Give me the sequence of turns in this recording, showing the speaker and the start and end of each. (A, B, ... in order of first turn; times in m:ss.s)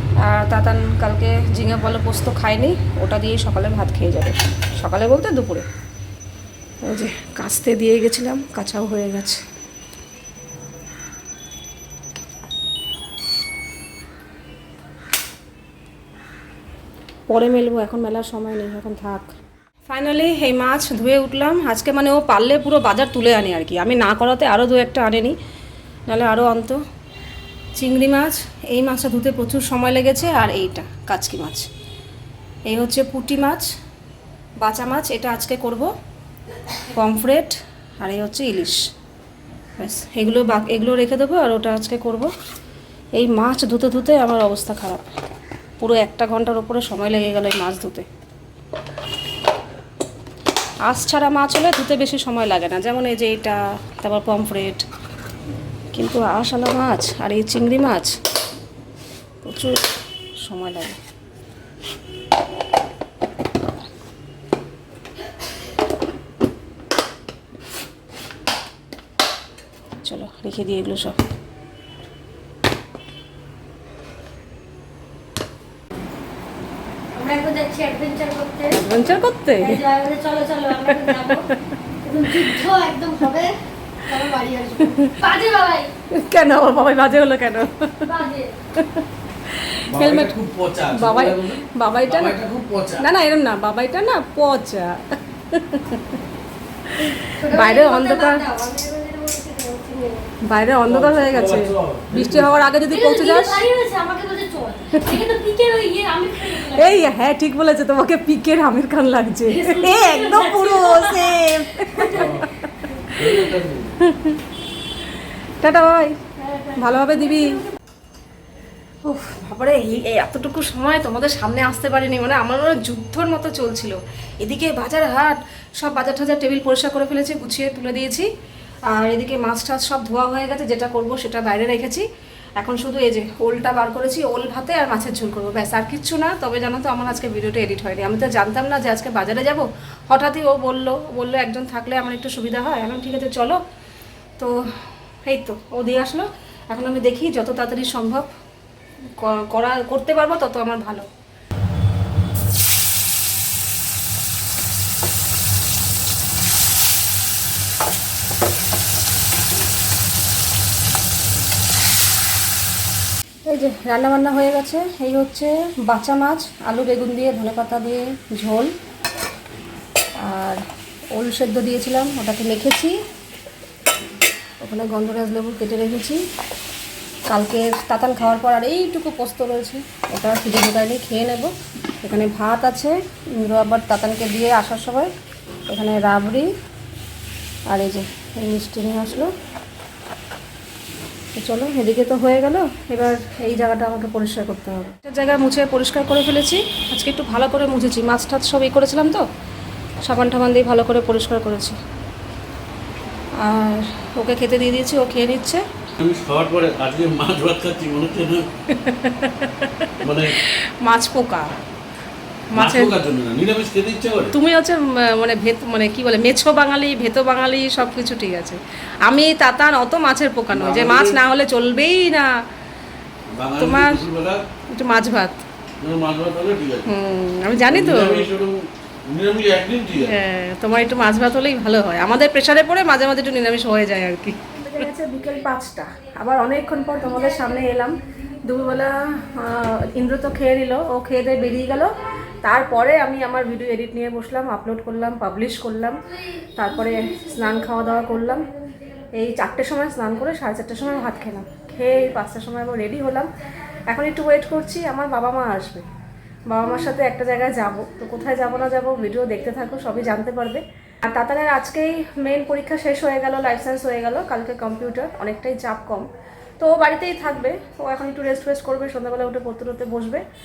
0:00.2-0:05.6 A
0:06.8-0:09.4 A
0:17.3-0:19.3 A
0:19.9-0:25.4 A
0:26.1-0:26.8 A
0:27.8-0:31.7 A
0:32.7-0:33.6 A
0:34.6-0:35.9 A
0:36.9-0:38.8 A
0:39.8-0:42.3 A
0:43.1-0:45.0 A
0:45.8-0:48.0 A
0:50.8-0:54.8 A
0:55.9-0:58.2 A
0:59.4-0:59.8 A
1:00.4-1:01.0 A
1:10.0-1:11.2 A
1:17.1-1:18.8 B
1:18.7-1:19.8 A
1:19.6-1:21.4 B
1:20.8-1:21.3 A
1:22.0-1:25.9 B
1:26.1-1:28.1 A
1:28.0-1:28.5 B
1:28.8-1:30.4 A
1:29.9-1:33.1 C
1:30.9-1:32.4 A
1:33.0-1:36.2 A
1:37.0-1:38.4 A
1:37.1-1:40.3 B
1:40.4-1:43.6 A
1:40.8-1:42.5 C
1:42.9-1:47.1 B
1:46.7-1:52.5 A
1:49.5-1:51.5 B
1:52.1-1:52.5 C
1:53.2-1:54.0 C
1:54.0-1:54.4 A
1:55.6-1:56.2 A
1:56.5-1:57.6 B
1:56.8-1:57.6 A
1:59.0-2:08.3 A
2:08.9-2:12.0 A
2:12.6-2:23.6 A
2:25.2-2:28.3 A
2:29.2-2:31.0 A
2:43.5-2:48.7 A
2:50.2-2:50.6 A
2:51.1-2:53.0 A
2:54.6-2:56.2 A
2:57.3-3:05.1 A
3:05.7-3:06.5 A
3:07.7-3:09.3 A
3:11.3-3:19.2 A
3:20.0-3:21.8 A
3:23.4-3:25.6 A
3:26.0-3:28.5 C
3:28.7-3:31.5 A
3:30.0-3:30.3 C
3:32.5-3:33.0 A
3:32.5-3:34.4 C
3:34.3-3:42.3 A
3:40.5-3:41.2 C
3:43.4-3:44.4 C
3:43.6-3:44.0 A
3:44.7-3:45.4 A
3:45.8-3:46.9 C
3:46.8-3:48.3 A
3:47.7-3:50.1 C
3:50.0-4:06.0 A
4:06.6-4:08.5 A
4:09.2-4:13.3 A
4:13.9-4:15.8 A
4:16.5-4:26.1 A
4:26.6-4:30.2 A